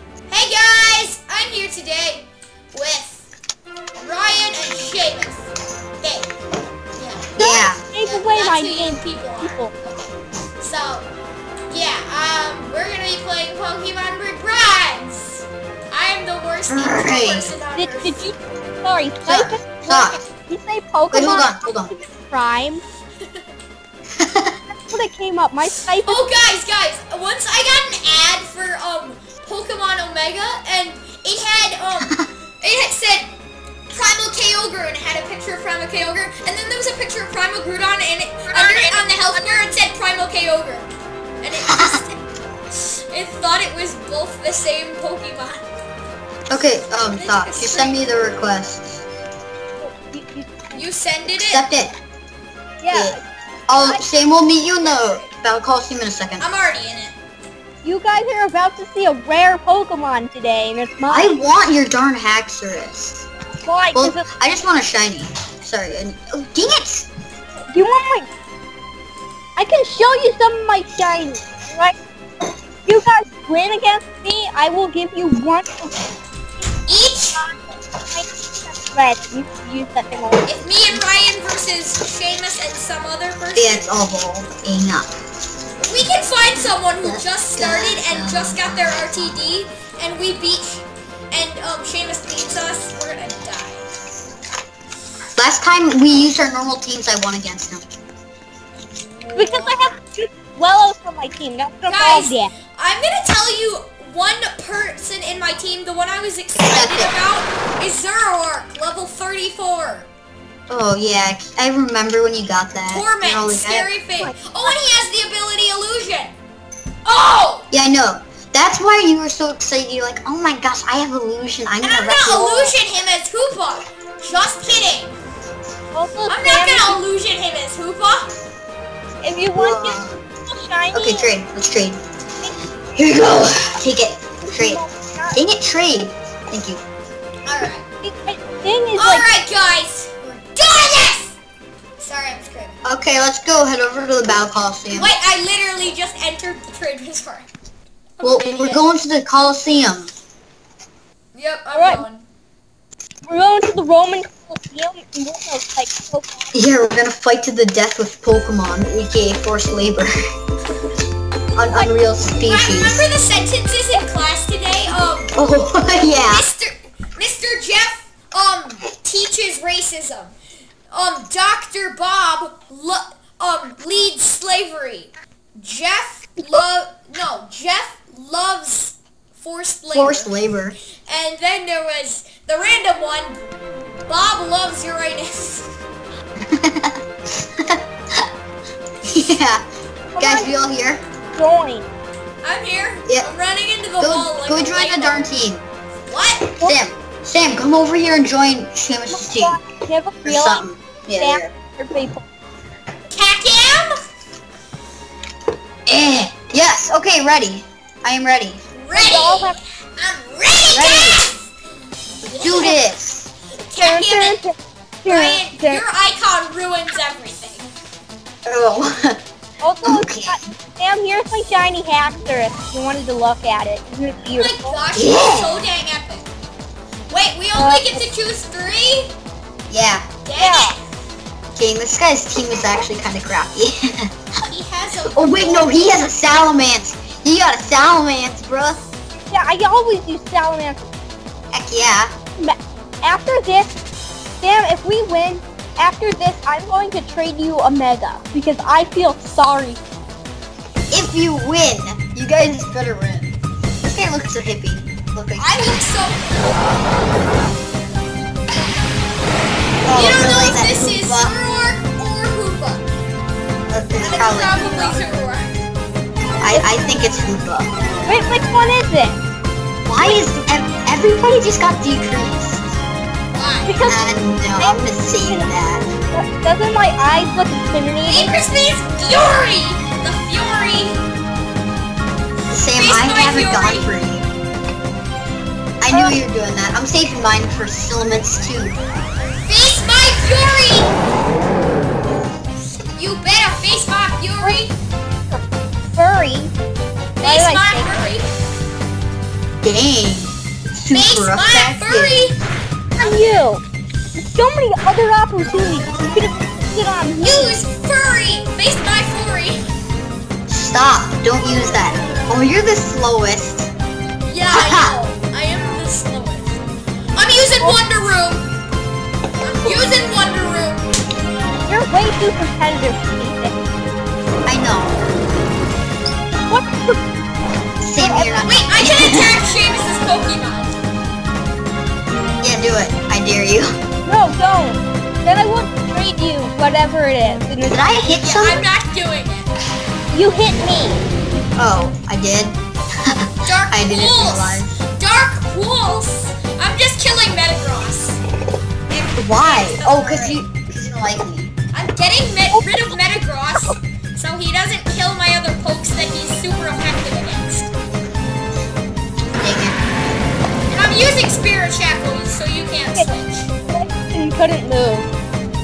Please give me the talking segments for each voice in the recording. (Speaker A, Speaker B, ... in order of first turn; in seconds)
Speaker A: 0.3-3.3, 4.0-5.5, 6.0-6.3, 7.0-7.4, 8.0-11.1, 11.7-18.3, 25.9-33.3, 33.9-40.9, 41.4-42.2, 42.7-45.6, 47.1-48.0, 50.7-51.7, 54.8-55.3, 56.4-57.2, 76.9-77.4, 80.5-83.8, 85.8-93.9, 98.9-99.9, 101.9-110.1, 112.9-116.3, 117.0-117.7, 121.8-125.2, 126.3-128.3, 137.4-137.8, 139.0-141.4, 142.0-142.8, 144.9-147.5, 148.2-148.8, 151.3-152.3, 162.4-165.3, 166.3-170.3, 170.9-180.3, 180.9-183.4, 184.1-185.7, 192.4-195.3, 196.1-196.5, 203.1-204.0, 208.8-211.5, 212.2-212.8, 213.7-214.4, 215.1-217.7, 224.3-226.3, 227.1-229.1, 230.2-230.8, 234.5-235.9, 255.4-256.7, 259.9-262.9, 264.0-265.5, 273.3-273.8, 278.1-281.0, 282.7-283.9, 289.4-291.0, 293.0-294.8, 297.2-298.3, 300.9-302.4, 303.0-303.3, 307.2-309.6, 314.2-316.6, 317.2-318.5, 319.4-320.9, 328.4-330.8, 338.2-339.5, 343.4-348.2, 348.9-350.4, 351.7-357.7, 360.7-363.5
Speaker B: 7.4-7.8, 16.7-17.5, 19.3-20.2, 21.1-21.9, 24.2-24.6, 41.7-42.0, 46.5-49.0, 51.3-51.9, 52.9-53.2, 53.7-56.5, 61.1-63.3, 63.9-67.1, 83.5-85.1, 87.0-89.4, 95.4-97.9, 106.6-107.1, 110.7-113.9, 117.7-122.7, 129.6-130.2, 130.9-132.0, 132.9-136.8, 142.8-145.1, 148.2-150.1, 156.5-160.1, 161.6-163.1, 165.4-166.5, 179.9-180.8, 186.4-188.2, 189.1-189.6, 190.2-191.0, 194.0-195.7, 196.6-199.6, 200.2-201.5, 205.9-208.6, 210.7-211.2, 212.2-213.3, 218.5-219.2, 219.8-220.4, 224.9-225.7, 229.7-230.1, 231.6-234.1, 235.1-238.8, 241.5-242.1, 250.9-255.8, 259.9-261.4, 263.7-265.0, 266.4-267.7, 269.9-272.8, 273.9-275.9, 282.5-284.3, 285.8-288.8, 299.6-302.4, 310.5-313.7, 314.5-315.0, 324.5-325.0, 327.8-329.4, 332.4-333.7, 337.6-338.7, 341.6-344.8, 349.2-351.5, 359.4-359.8
Speaker C: 7.4-9.7, 17.8-22.8, 24.9-26.3, 49.8-50.8, 52.8-53.2, 53.8-54.0, 57.8-61.4, 63.6-64.2, 67.7-68.3, 69.6-72.0, 72.9-76.0, 77.3-80.5, 99.3-102.5, 114.2-114.7, 125.9-127.0, 129.2-131.3, 134.4-135.4, 138.0-139.3, 151.7-152.1, 153.3-156.5, 190.2-190.5, 191.3-191.9, 199.1-200.7, 201.2-202.3, 208.9-209.6, 213.8-215.8, 219.6-224.8, 227.6-228.0, 230.4-230.7, 239.3-240.9, 242.4-243.8, 244.4-249.8, 268.1-269.2, 273.7-275.5, 276.1-278.4, 285.9-286.2, 295.3-296.5, 297.2-297.9, 303.0-303.6, 304.2-307.6, 321.6-323.6, 326.5-327.0, 328.0-328.5, 334.1-337.9, 340.1-341.1, 352.5-352.9, 363.7-365.1